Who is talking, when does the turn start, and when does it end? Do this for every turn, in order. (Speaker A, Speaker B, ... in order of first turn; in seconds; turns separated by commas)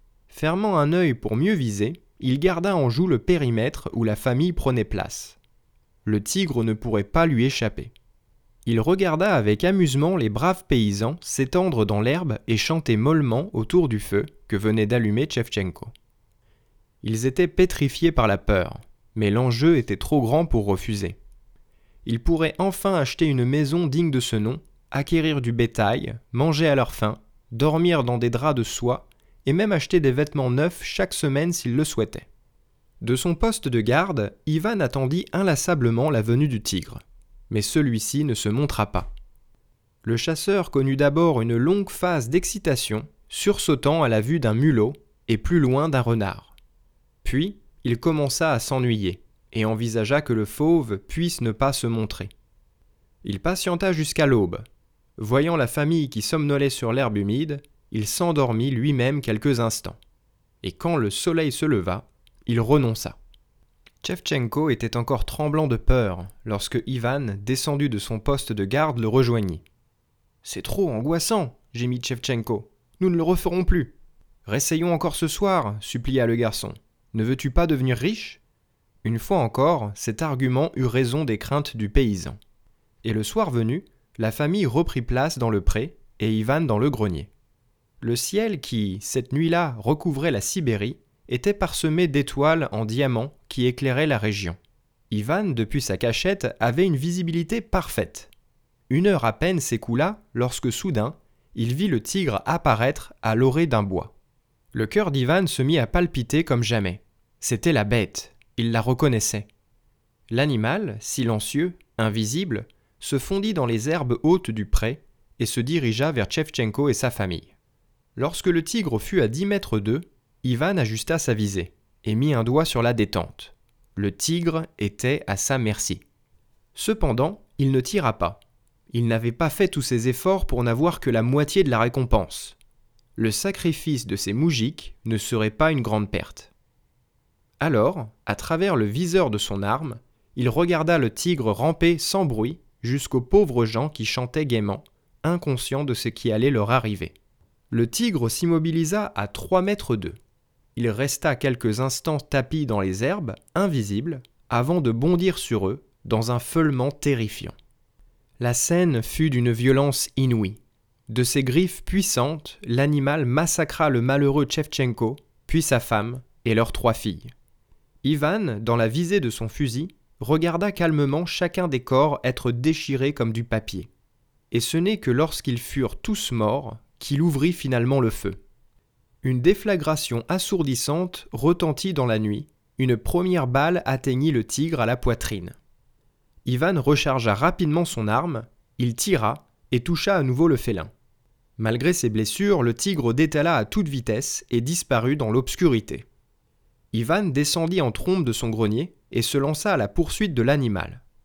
Speaker A: 0.3-5.4, Speaker A: 6.0-7.9, Speaker A: 8.7-15.9, Speaker A: 17.0-21.2, Speaker A: 22.0-32.3, Speaker A: 33.0-39.1, Speaker A: 40.0-46.5, Speaker A: 47.2-52.3, Speaker A: 53.2-54.6, Speaker A: 55.2-60.0, Speaker A: 60.6-63.2, Speaker A: 64.0-69.6, Speaker A: 70.4-78.4, Speaker A: 79.0-82.4, Speaker A: 83.0-87.3, Speaker A: 88.0-94.6, Speaker A: 95.1-98.3, Speaker A: 98.9-104.1, Speaker A: 104.7-109.5, Speaker A: 110.3-117.5, Speaker A: 118.2-126.0, Speaker A: 126.7-132.6, Speaker A: 133.2-136.5, Speaker A: 137.6-147.1, Speaker A: 147.7-150.2, Speaker A: 150.7-157.5, Speaker A: 158.4-167.3, Speaker A: 168.0-173.9, Speaker A: 174.5-178.4, Speaker A: 179.2-185.6, Speaker A: 186.4-190.9, Speaker A: 191.6-196.1, Speaker A: 196.9-201.0